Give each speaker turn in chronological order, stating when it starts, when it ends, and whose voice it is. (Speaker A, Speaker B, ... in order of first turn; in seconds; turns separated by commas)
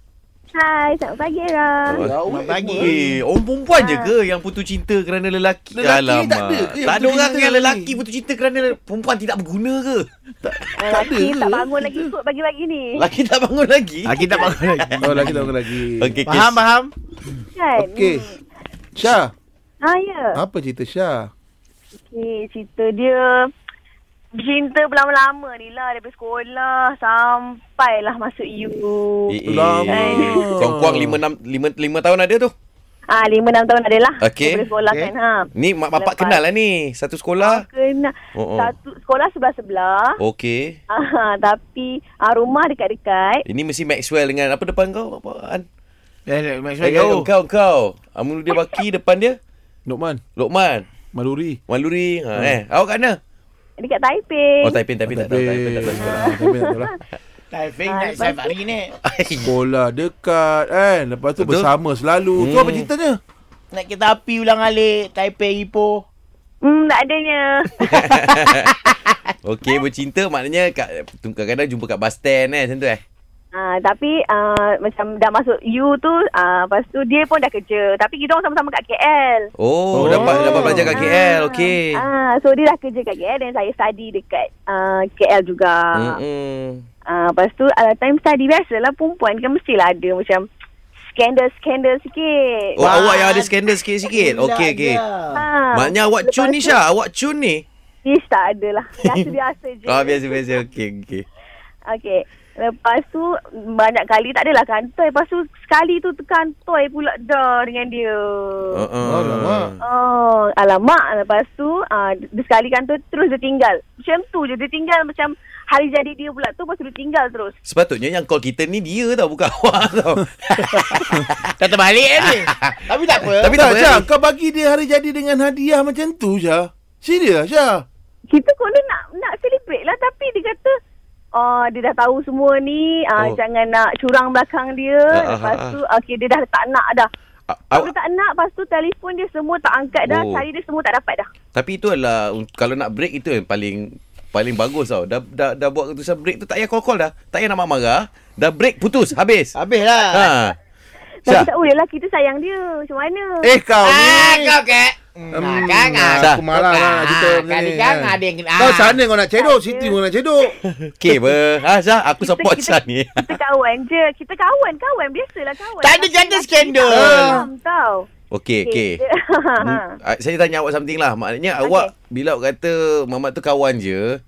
Speaker A: 0.5-2.0, Speaker B: 1.9-2.1, Speaker C: 2.0-2.9, Speaker D: 2.2-3.2, Speaker B: 2.8-10.1, Speaker A: 3.7-4.1, Speaker C: 5.7-8.0, Speaker C: 10.4-12.1, Speaker A: 10.8-13.0, Speaker B: 13.0-16.6, Speaker D: 14.1-15.4, Speaker C: 15.0-16.2, Speaker D: 16.2-16.9, Speaker A: 17.6-18.4, Speaker C: 17.8-18.3, Speaker C: 18.9-19.3, Speaker A: 19.8-20.4, Speaker C: 20.3-21.3, Speaker A: 22.1-23.5, Speaker A: 24.4-29.3, Speaker B: 29.3-32.5, Speaker C: 29.4-31.2, Speaker A: 29.9-30.5, Speaker A: 33.1-36.4, Speaker B: 34.2-34.7, Speaker D: 34.9-35.1, Speaker B: 35.5-37.6, Speaker A: 37.4-40.1, Speaker B: 38.3-38.7, Speaker B: 40.2-40.8, Speaker A: 40.9-43.4, Speaker B: 43.5-45.6, Speaker D: 46.3-47.3, Speaker B: 46.8-49.4, Speaker C: 49.9-50.2, Speaker B: 50.4-50.9, Speaker C: 51.1-51.6, Speaker B: 51.7-53.2, Speaker A: 53.8-54.8, Speaker B: 54.6-56.3, Speaker C: 55.1-56.9, Speaker A: 55.9-57.0, Speaker D: 57.5-58.9, Speaker A: 57.9-58.5, Speaker B: 59.0-59.5, Speaker C: 59.4-63.2, Speaker B: 61.4-61.7, Speaker B: 62.4-62.9, Speaker D: 63.7-66.0, Speaker A: 66.6-68.2, Speaker B: 67.9-68.9, Speaker D: 68.0-69.2, Speaker B: 69.4-73.0, Speaker A: 73.5-79.5, Speaker B: 79.6-82.0, Speaker C: 79.9-81.1, Speaker A: 80.0-86.2, Speaker B: 85.9-86.8, Speaker A: 87.1-90.4, Speaker A: 91.0-92.9, Speaker B: 92.8-95.0, Speaker D: 92.8-93.5, Speaker D: 94.1-95.5, Speaker A: 95.3-96.8, Speaker B: 95.7-97.6, Speaker A: 98.0-100.4, Speaker B: 99.0-99.3, Speaker B: 99.9-101.2, Speaker A: 101.9-108.8, Speaker B: 108.7-109.8, Speaker C: 109.0-109.7, Speaker A: 109.8-117.5, Speaker B: 117.6-121.5, Speaker D: 120.8-121.0, Speaker D: 121.6-123.6, Speaker B: 122.2-124.0, Speaker C: 123.5-127.8, Speaker A: 128.3-130.8, Speaker A: 131.3-137.1, Speaker B: 135.1-135.8, Speaker B: 137.5-137.9, Speaker A: 137.7-141.3, Speaker B: 140.1-140.4, Speaker B: 141.5-150.5, Speaker D: 149.5-150.3, Speaker A: 151.2-153.5, Speaker C: 153.4-154.6, Speaker D: 153.8-159.0, Speaker C: 155.3-160.5, Speaker A: 159.4-160.0, Speaker B: 161.0-163.3, Speaker A: 162.2-168.1, Speaker D: 165.8-167.4, Speaker C: 166.9-167.4, Speaker B: 168.3-169.0, Speaker A: 168.6-169.9, Speaker B: 169.6-174.2, Speaker A: 171.6-171.9